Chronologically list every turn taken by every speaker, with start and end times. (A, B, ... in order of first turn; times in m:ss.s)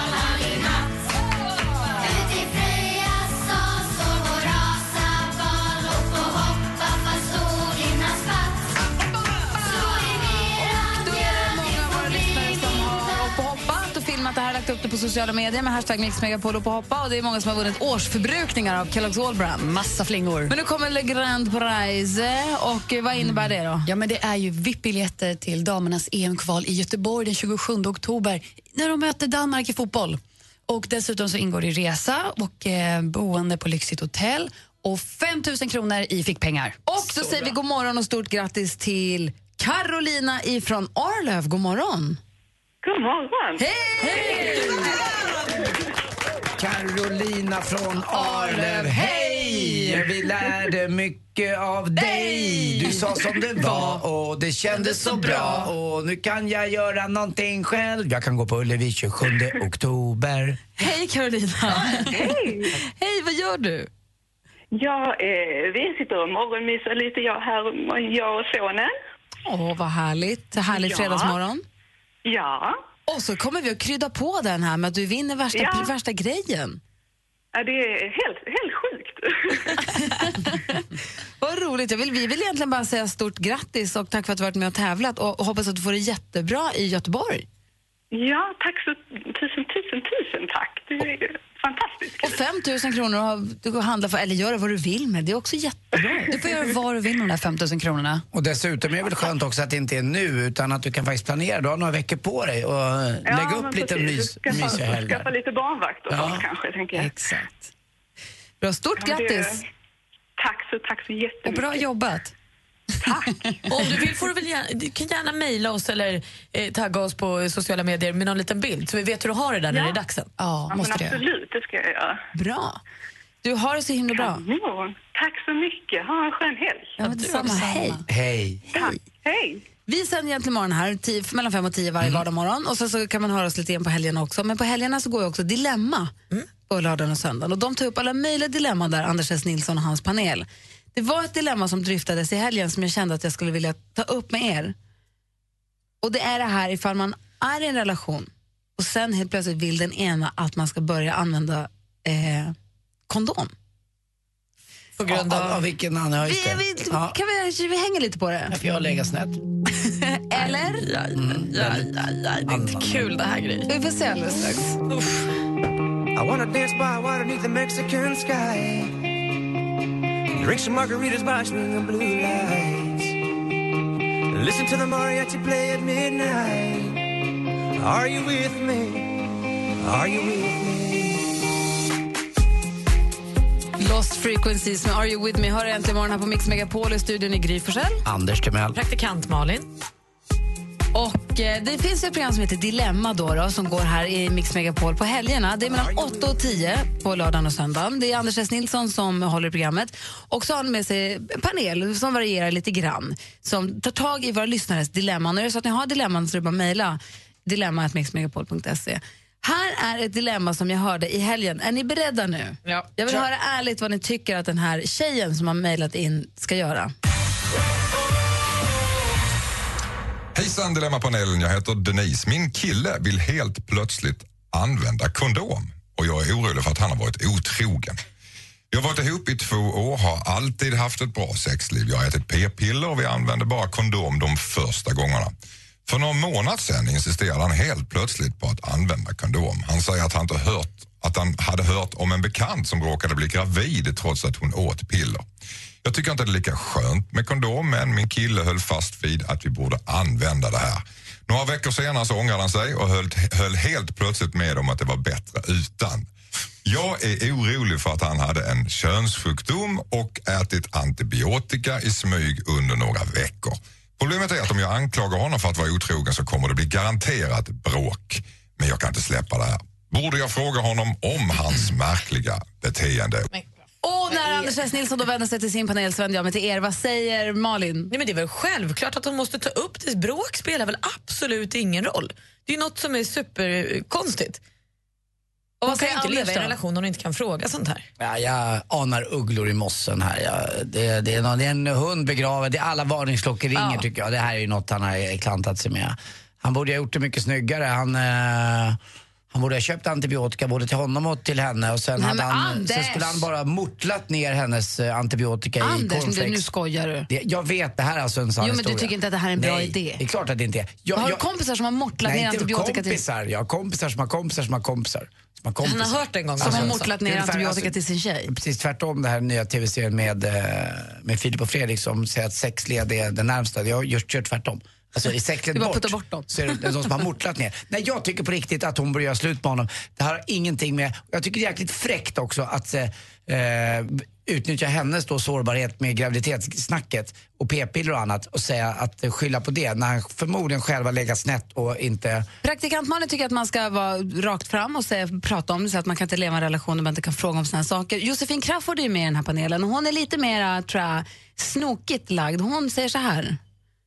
0:10.0-0:19.7 A
0:19.6-0:20.5 B
0:20.5-0:23.9 A
0:23.2-0:36.8 B
0:36.9-0:42.2 A
0:37.1-0:37.5 C
0:42.8-0:44.8 D
0:43.6-0:45.0 A
0:46.6-1:00.7 E
0:48.1-0:50.0 A
0:52.0-0:53.0 A
0:53.6-0:54.0 A
0:55.0-0:55.7 A
1:00.8-1:03.9 A
1:02.0-1:02.7 D
1:04.7-1:08.9 D
1:09.4-1:11.6 A
1:10.6-1:11.4 D
1:12.2-1:12.8 D
1:13.1-1:16.8 A
1:15.5-1:15.9 D
1:17.5-1:19.8 D
1:19.8-1:20.8 A
1:21.4-1:27.4 A
1:28.1-1:32.4 D
1:32.2-1:36.3 A
1:36.3-1:38.2 B
1:38.3-1:45.3 E
1:43.2-1:47.1 D
1:46.1-1:46.4 E
1:47.0-1:47.7 B
1:48.6-1:49.6 A
1:49.0-1:49.6 D
1:50.4-1:51.9 D
1:51.4-1:52.3 B
1:53.0-1:53.3 D
1:53.1-1:53.4 B
1:53.7-2:00.3 C
1:59.7-2:00.0 D
2:00.4-2:01.2 B
2:00.7-2:02.2 D
2:02.3-2:02.8 A
2:03.4-2:04.4 A
2:04.1-2:07.0 D
2:07.0-2:08.0 A
2:07.2-2:08.0 B
2:08.1-2:08.7 E
2:08.7-2:09.6 D
2:09.9-2:16.1 A
2:16.7-2:24.7 A
2:26.0-2:32.5 A
2:33.1-2:33.5 A
2:35.0-2:35.6 C
2:35.1-2:37.2 E
2:36.2-2:38.6 A
2:38.5-2:39.4 E
2:39.8-2:40.9 A
2:40.4-2:43.7 C
2:41.1-2:43.0 E
2:43.7-2:44.8 A
2:44.9-2:45.3 C
2:46.1-2:49.0 F
2:50.3-2:53.2 F
2:54.3-2:57.1 F
2:57.8-2:59.2 F
2:59.8-3:01.2 F
3:03.8-3:08.0 A
3:08.0-3:08.8 E
3:08.8-3:09.7 C
3:10.9-3:36.9 A
3:15.7-3:16.2 F
3:32.6-3:33.2 C
3:40.4-3:48.0 G
3:48.7-3:55.3 G
3:55.9-4:05.2 G
4:05.8-4:16.1 G
4:16.6-4:33.3 G
4:33.8-4:37.9 A
4:37.9-4:44.4 C
4:45.6-4:46.6 A
4:45.6-4:47.9 C
4:48.0-4:58.8 E
4:53.6-4:53.9 C
4:59.3-5:06.4 E
5:02.0-5:03.3 A
5:05.6-5:07.1 A
5:07.1-5:11.2 E
5:08.4-5:10.0 A
5:11.0-5:13.0 A
5:12.0-5:42.3 E
5:15.6-5:16.9 C
5:16.4-5:18.3 A
5:25.5-5:26.7 A
5:42.4-5:53.4 A